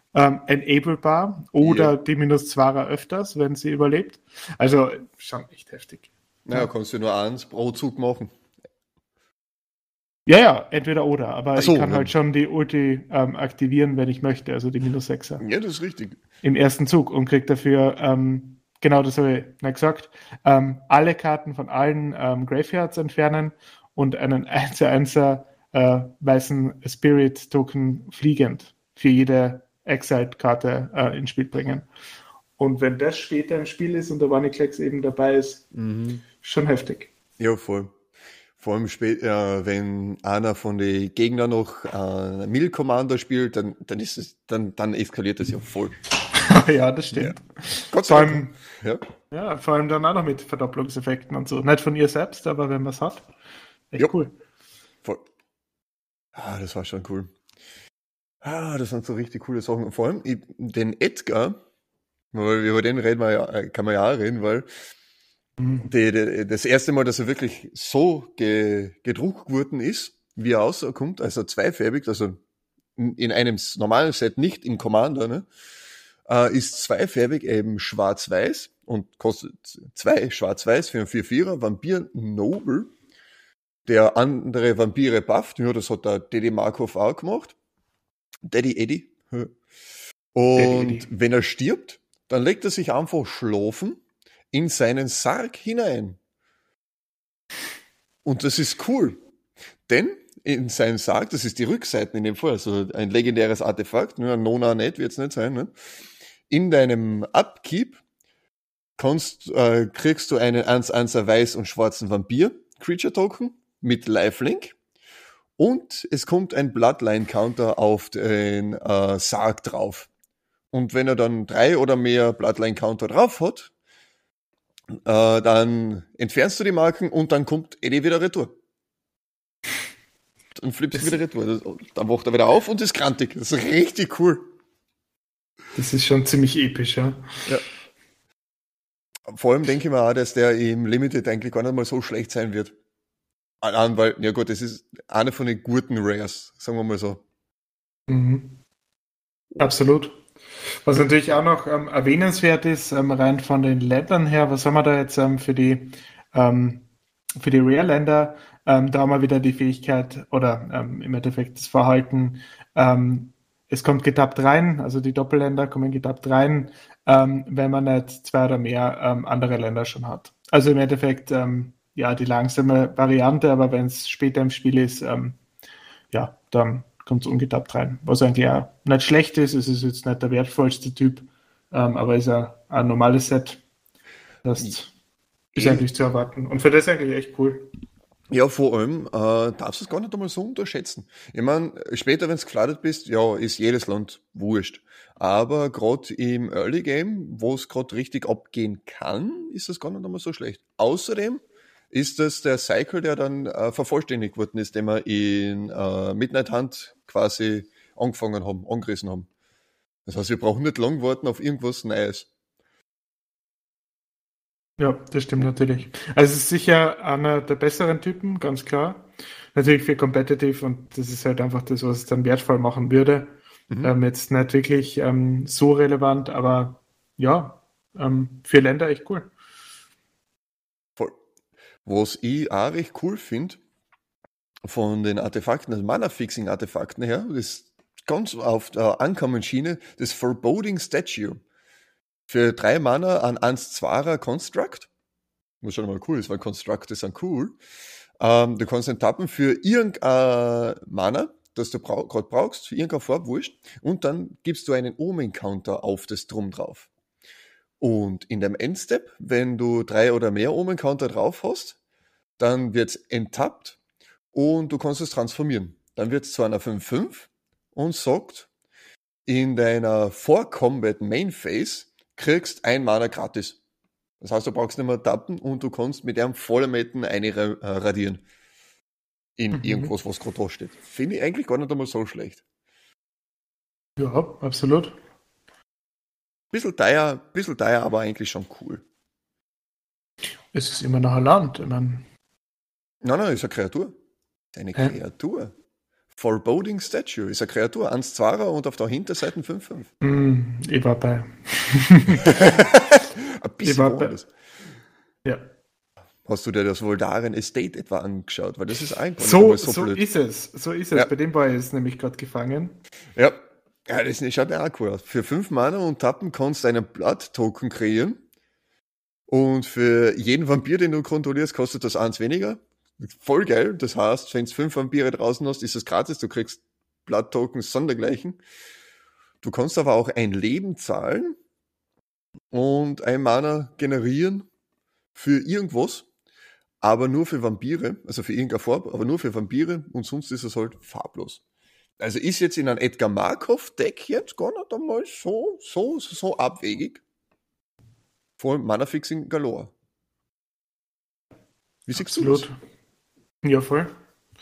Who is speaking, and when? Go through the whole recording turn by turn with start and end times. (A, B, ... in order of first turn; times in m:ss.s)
0:00.1-0:06.7 A
0:01.6-0:01.9 B
0:06.4-0:08.3 B
0:10.3-0:15.4 A
0:11.6-0:12.1 B
0:15.4-0:16.2 B
0:16.4-0:31.8 A
0:32.6-0:35.6 A
0:35.7-0:36.2 B
0:36.4-0:37.1 A
0:37.4-0:37.9 B
0:38.6-0:45.9 B
0:46.3-0:48.6 A
0:47.9-0:49.0 B
0:49.3-0:53.3 A
0:53.9-0:54.3 A
0:56.3-0:57.3 B
0:58.4-1:01.6 B
1:02.3-1:04.7 B
1:05.8-1:12.4 B
1:13.0-1:15.5 B
1:16.2-1:22.9 B
1:23.8-1:27.5 B
1:28.4-1:29.5 B
1:30.3-1:34.0 B
1:30.6-1:31.1 A
1:34.5-1:36.2 B
1:38.2-1:39.2 B
1:39.9-1:45.7 B
1:46.5-1:48.0 B
1:49.0-1:54.8 B
1:55.6-2:00.1 B
2:00.7-2:03.7 B
2:05.0-2:08.5 B
2:10.6-2:14.5 B
2:15.7-2:17.5 A
2:19.3-2:22.7 B
2:23.6-2:27.2 B
2:28.1-2:28.6 A
2:29.6-2:30.2 A
2:30.8-2:36.8 A
2:37.4-2:55.4 A
2:56.1-3:03.6 A
3:04.4-3:04.9 A
3:05.5-3:07.7 A
3:05.5-3:05.8 B
3:08.3-3:29.3 B
3:30.0-3:32.3 B
3:34.8-3:49.3 A
3:51.8-3:53.6 B
3:54.6-4:01.4 B
4:02.3-4:04.9 B
4:05.6-4:07.6 B
4:08.2-4:16.9 B
4:17.8-4:21.8 B
4:22.4-4:23.8 B
4:24.3-4:28.5 B
4:29.2-4:33.6 B
4:34.2-4:38.2 B
4:39.4-4:42.4 B
4:39.5-4:39.9 A
4:44.0-4:45.0 A
4:46.5-4:48.8 B
4:50.5-4:52.0 A
4:53.0-4:53.9 B
4:54.5-4:55.5 B
4:56.1-4:59.9 B
5:00.0-5:02.3 A
5:02.2-5:04.3 B
5:03.6-5:04.2 A
5:06.2-5:10.0 B
5:09.2-5:12.8 A
5:13.2-5:18.2 B
5:19.3-5:28.4 B
5:29.4-5:31.4 B
5:32.5-5:34.5 B
5:35.1-5:36.1 B
5:36.8-5:41.4 B
5:42.0-5:47.0 B
5:48.4-5:49.7 B
5:51.9-5:52.5 B
5:52.0-5:52.6 A
5:53.4-5:53.9 A